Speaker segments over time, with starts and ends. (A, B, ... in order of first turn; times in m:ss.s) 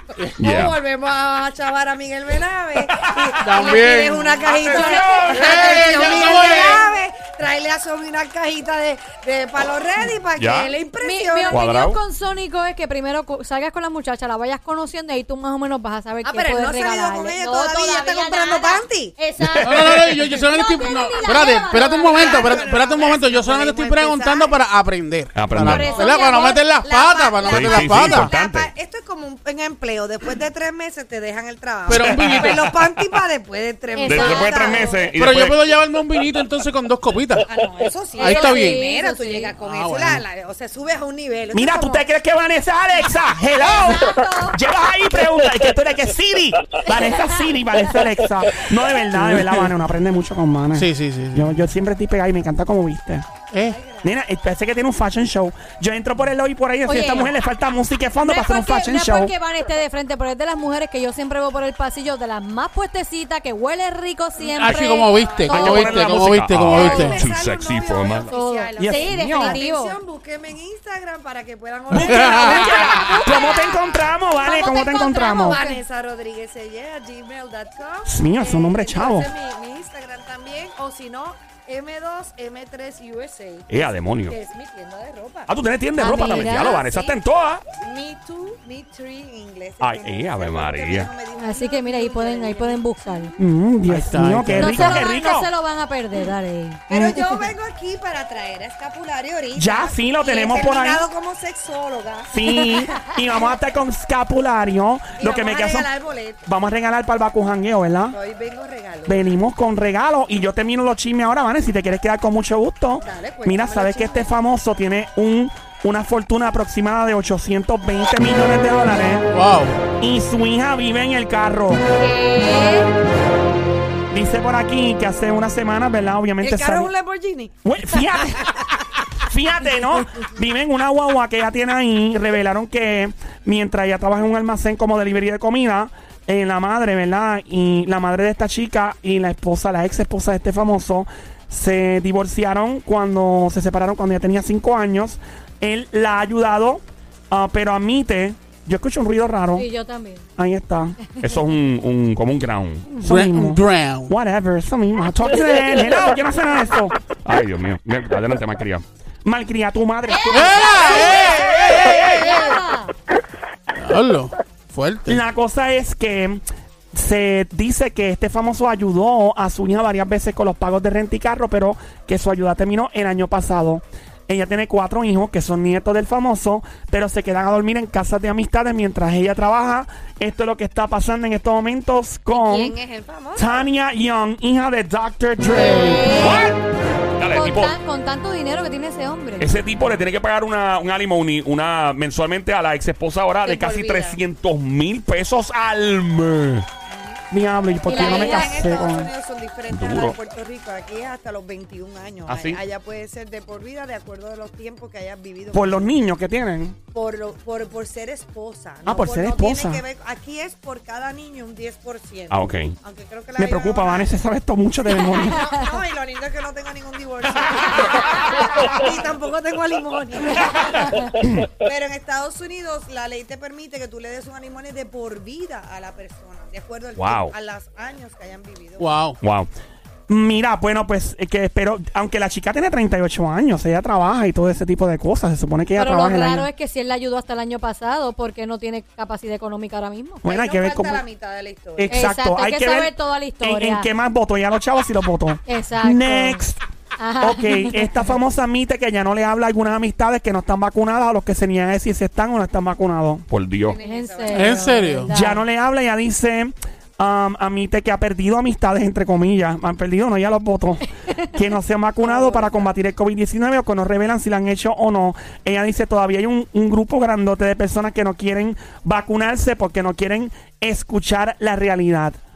0:00.4-0:11.6 A
0:00.4-0:00.8 B
0:02.9-0:03.4 B
0:03.4-0:06.9 C
0:04.7-0:05.3 D
0:04.7-0:06.0 B
0:10.4-0:10.7 B
0:11.0-0:22.7 D
0:11.5-0:12.0 B
0:16.2-0:19.2 A
0:19.6-0:28.3 C
0:21.2-0:24.5 A
0:25.3-0:25.9 B
0:25.6-0:26.7 D
0:25.7-0:35.1 A
0:27.4-0:28.7 B
0:31.8-0:32.8 C
0:32.1-0:33.1 B
0:33.9-0:35.0 D
0:34.0-0:35.6 B
0:35.2-0:37.5 C
0:37.4-0:42.0 A
0:38.2-0:39.5 D
0:38.2-0:38.8 C
0:39.6-0:40.2 C
0:41.5-0:53.3 E
0:43.6-0:44.6 D
0:46.8-0:47.4 D
0:49.2-0:49.7 C
0:50.7-0:51.5 C
0:53.5-0:53.8 C
0:53.6-0:54.2 A
0:54.0-0:59.3 E
0:56.9-0:57.3 D
0:58.2-1:06.2 D
1:04.4-1:07.2 C
1:04.7-1:04.9 B
1:05.4-1:08.3 B
1:06.7-1:27.2 A
1:08.3-1:10.0 D
1:08.8-1:09.6 E
1:11.9-1:13.2 C
1:11.9-1:15.6 E
1:14.4-1:14.7 D
1:15.4-1:15.8 D
1:18.0-1:19.3 E
1:23.7-1:24.4 B
1:25.5-1:27.6 B
1:26.0-1:26.7 D
1:27.8-1:33.4 A
1:29.8-1:31.1 B
1:31.4-1:33.3 D
1:33.4-1:35.5 E
1:33.9-1:35.1 C
1:34.6-1:37.4 D
1:36.9-1:42.8 A
1:39.5-1:41.1 E
1:42.3-1:45.9 E
1:45.2-1:46.5 A
1:46.4-1:48.2 E
1:48.1-1:49.3 A
1:49.0-1:59.3 E
1:53.0-1:54.3 A
1:59.3-1:59.7 C
2:00.0-2:01.8 E
2:02.0-2:02.9 D
2:04.1-2:06.9 E
2:06.4-2:08.8 A
2:07.6-2:08.5 E
2:09.2-2:29.7 E
2:29.5-2:30.2 D
2:30.4-2:31.0 E
2:31.2-2:32.9 B
2:32.9-2:37.0 E
2:33.0-2:34.1 C
2:37.2-2:38.8 B
2:39.2-2:41.3 E
2:40.1-2:42.9 D
2:40.3-2:42.3 C
2:43.8-2:45.2 C
2:45.1-2:46.4 E
2:46.9-3:02.8 E
3:02.3-3:03.6 A
3:03.3-3:06.2 E
3:05.6-3:06.5 D
3:06.1-3:06.6 B
3:07.2-3:07.7 B
3:07.3-3:09.5 D
3:09.4-3:16.6 B
3:13.4-3:14.2 A
3:16.9-3:17.2 A
3:17.3-3:19.1 E
3:17.8-3:25.9 A
3:17.8-3:18.6 D
3:19.7-3:20.2 B
3:22.3-3:22.6 B
3:25.5-3:26.8 E
3:26.9-3:34.1 A
3:28.8-3:29.8 E
3:32.3-3:32.8 B
3:33.4-3:35.5 E
3:34.9-3:35.8 D
3:35.0-3:49.0 A
3:40.7-3:41.1 D
3:41.2-3:41.5 B
3:47.0-3:47.3 B
3:48.8-3:49.2 C
3:49.2-3:49.5 B
3:50.1-3:56.5 E
3:55.8-4:00.2 D
4:00.2-4:01.0 E
4:00.2-4:02.1 A
4:01.8-4:06.6 E
4:01.9-4:03.9 D
4:05.5-4:06.4 D
4:07.0-4:08.0 D
4:07.2-4:13.2 E
4:13.3-4:13.8 B
4:13.6-4:14.8 A
4:13.8-4:15.4 D
4:14.3-4:15.1 C
4:15.1-4:32.2 E
4:22.0-4:22.7 A